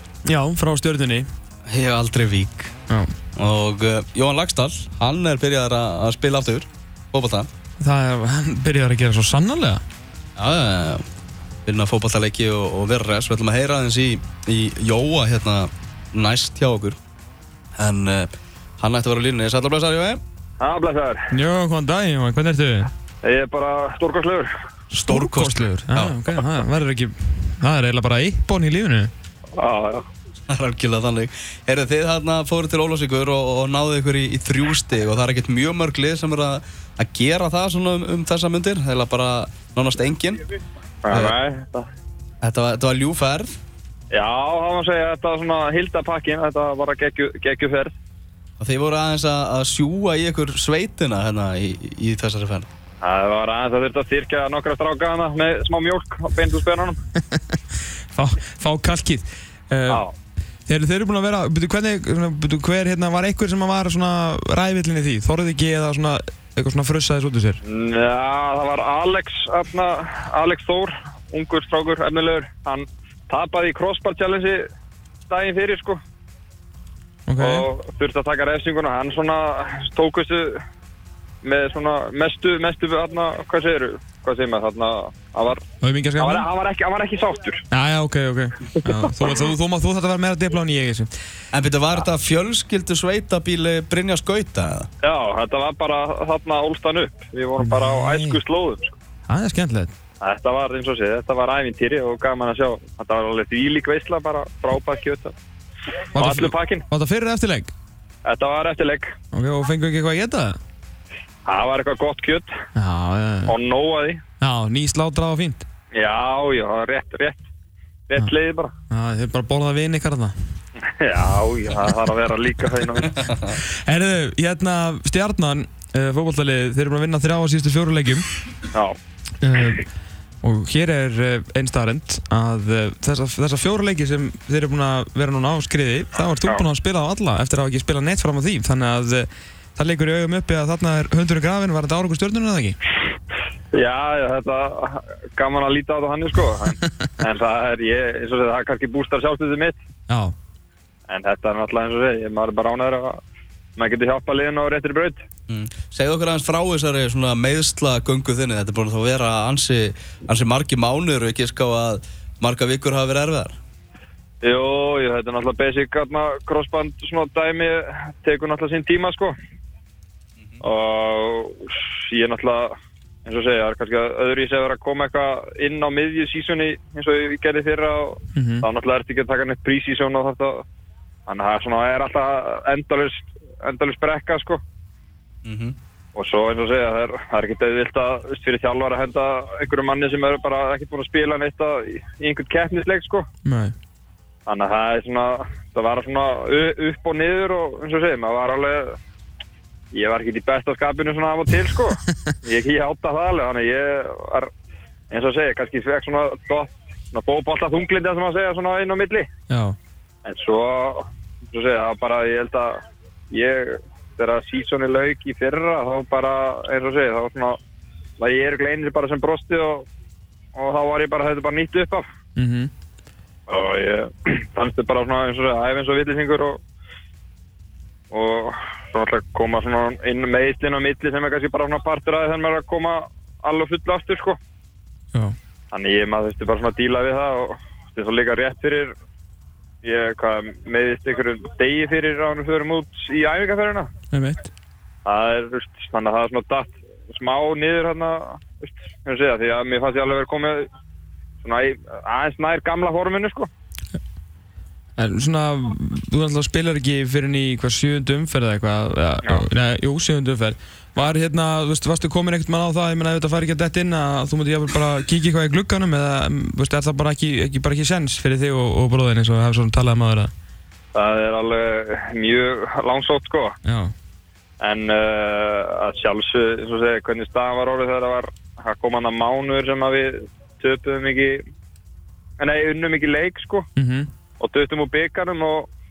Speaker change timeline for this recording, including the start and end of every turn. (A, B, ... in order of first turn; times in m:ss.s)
0:00.2-0:01.3 A
0:01.7-0:02.7 B
0:03.4-0:07.5 B
0:07.8-0:09.8 A
0:10.4-0:11.0 B
0:11.6-0:17.0 B
0:17.8-0:20.2 B
0:20.6-0:21.2 C
0:21.3-0:22.9 A
0:23.2-0:24.5 C
0:24.9-0:29.1 A
0:25.0-0:26.2 B
0:29.6-0:30.0 C
0:30.5-0:40.4 B
0:41.0-0:41.9 C
0:42.4-0:43.5 B
0:44.1-0:47.9 C
0:48.6-0:52.7 B
0:53.0-0:57.0 C
0:57.3-0:57.6 A
0:58.1-1:00.0 A
1:00.7-1:07.6 A
1:07.6-1:14.6 C
1:15.3-1:16.0 C
1:17.3-1:17.7 A
1:17.4-1:20.6 C
1:21.4-1:25.6 C
1:25.8-1:26.4 A
1:26.2-1:27.6 C
1:27.7-1:31.1 A
1:31.5-1:34.9 B
1:35.0-1:38.9 C
1:37.6-1:38.4 A
1:39.3-1:39.9 A
1:40.2-1:45.3 C
1:46.1-1:47.7 A
1:46.1-1:46.8 C
1:48.2-1:49.1 C
1:49.3-1:50.6 A
1:51.4-1:52.5 C
1:52.7-1:53.5 A
1:53.5-1:54.2 C
1:54.4-1:55.6 A
1:55.9-1:57.4 C
1:58.1-1:58.7 C
1:58.9-2:00.3 A
2:00.9-2:03.2 C
2:03.8-2:08.3 A
2:09.4-2:09.8 A
2:10.4-2:22.8 A
2:23.7-2:29.8 C
2:30.1-2:30.3 A
2:31.1-2:33.2 C
2:33.8-2:35.2 C
2:35.5-2:43.6 B
2:44.4-2:49.3 C
2:50.6-2:52.7 C
2:53.2-3:00.6 C
2:58.3-2:58.6 A
3:01.3-3:04.6 C
3:05.4-3:05.8 B
3:06.1-3:13.2 C
3:13.4-3:13.7 A
3:14.5-3:19.0 C
3:19.9-3:24.5 C
3:25.1-3:29.3 C
3:29.5-3:29.8 A
3:30.2-3:32.7 C
3:33.3-3:37.6 C
3:38.2-3:39.8 C
3:40.6-3:42.0 C
3:42.4-3:42.7 A
3:43.5-3:46.6 C
3:48.1-3:54.4 C
3:55.7-3:58.9 C
3:59.8-4:03.9 C
4:04.1-4:04.5 A
4:05.0-4:10.7 C
4:11.4-4:13.5 C
4:15.0-4:30.3 A
4:30.9-4:33.5 C
4:33.6-4:33.9 A
4:34.6-4:41.4 C
4:42.4-4:43.7 C
4:43.8-4:44.1 A
4:44.4-4:45.7 C